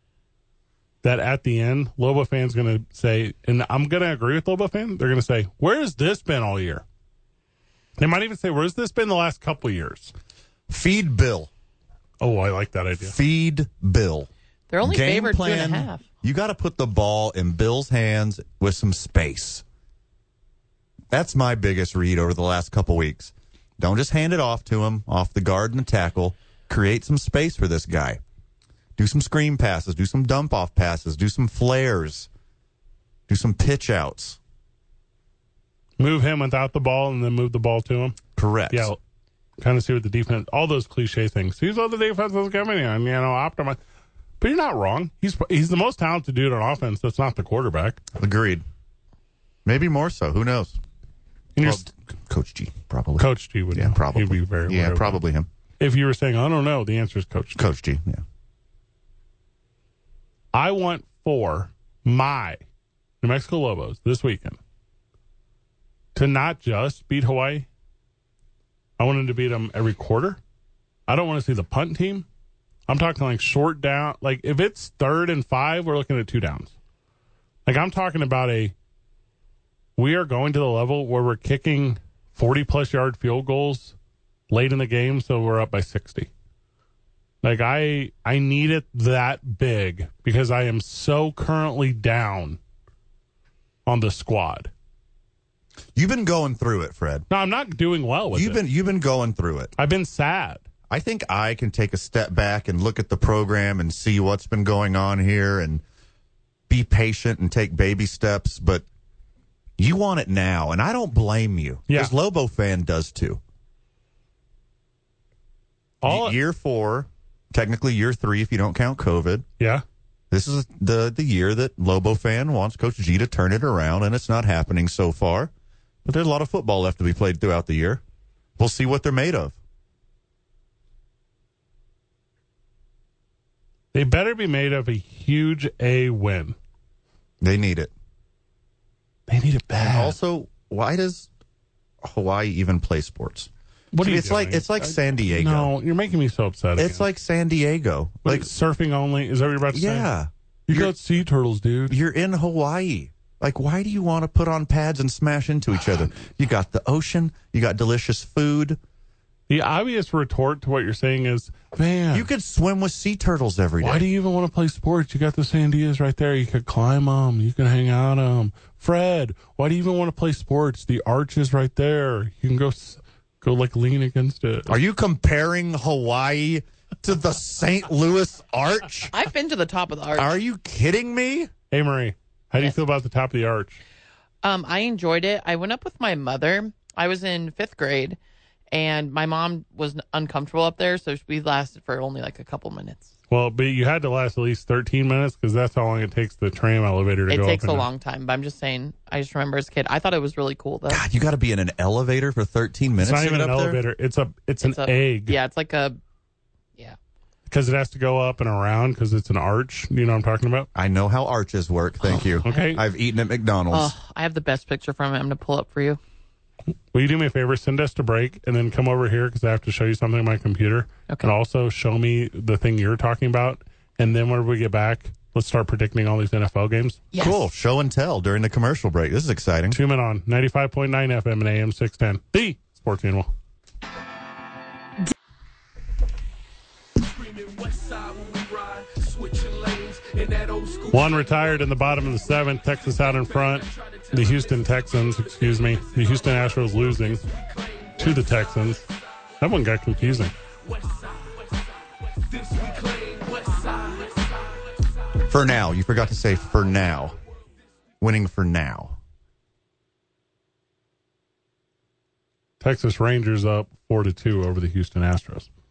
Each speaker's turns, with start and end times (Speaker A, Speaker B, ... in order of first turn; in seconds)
Speaker A: 1.0-6.8, 8.0-10.1, 12.2-13.2, 36.0-38.2, 38.7-39.0, 39.6-43.8, 44.4-48.0, 51.6-51.9, 53.2-55.2, 55.8-57.6, 60.5-62.6, 63.2-64.6, 66.2-67.7, 69.0-70.4, 71.1-72.3, 72.9-76.7, 77.7-78.7, 80.0-84.0, 84.5-86.3, 87.4-92.6, 93.9-94.7, 97.3-98.6, 99.8-100.6, 111.9-112.1, 116.0-116.4, 133.9-136.6, 139.3-140.2, 143.9-147.1, 148.2-150.1, 150.7-152.0, 159.5-162.3, 163.8-174.8, 181.7-183.8, 193.3-197.9, 203.0-205.4, 207.5-210.7, 212.4-212.8, 216.9-227.1, 229.7-233.3, 237.6-247.3, 247.8-248.9, 249.4-250.3, 253.1-253.9, 262.6-265.5
Speaker B: 10.7-11.5, 13.0-14.3, 14.8-19.6, 21.1-28.2, 29.0-32.3, 33.3-34.4, 38.4-38.9, 48.1-48.6, 49.6-50.8, 51.6-55.5, 57.6-58.2, 96.0-97.3, 98.3-99.7, 100.9-105.8, 106.7-108.8, 109.8-113.4, 116.0-119.5, 120.3-125.5, 126.0-128.0, 128.6-129.6, 137.4-137.9, 139.8-141.3, 142.0-143.5, 144.0-145.7, 146.8-148.5, 149.7-151.0, 151.9-158.8, 162.1-164.1, 174.7-179.1, 180.2-181.5, 200.9-203.8, 210.8-213.9, 227.2-229.8, 255.2-257.2, 258.0-259.0
Speaker C: 14.7-16.0, 179.1-180.3, 184.4-188.2, 188.7-193.1, 197.3-201.0, 204.6-206.0, 212.4-212.8, 213.7-216.0, 227.1-227.4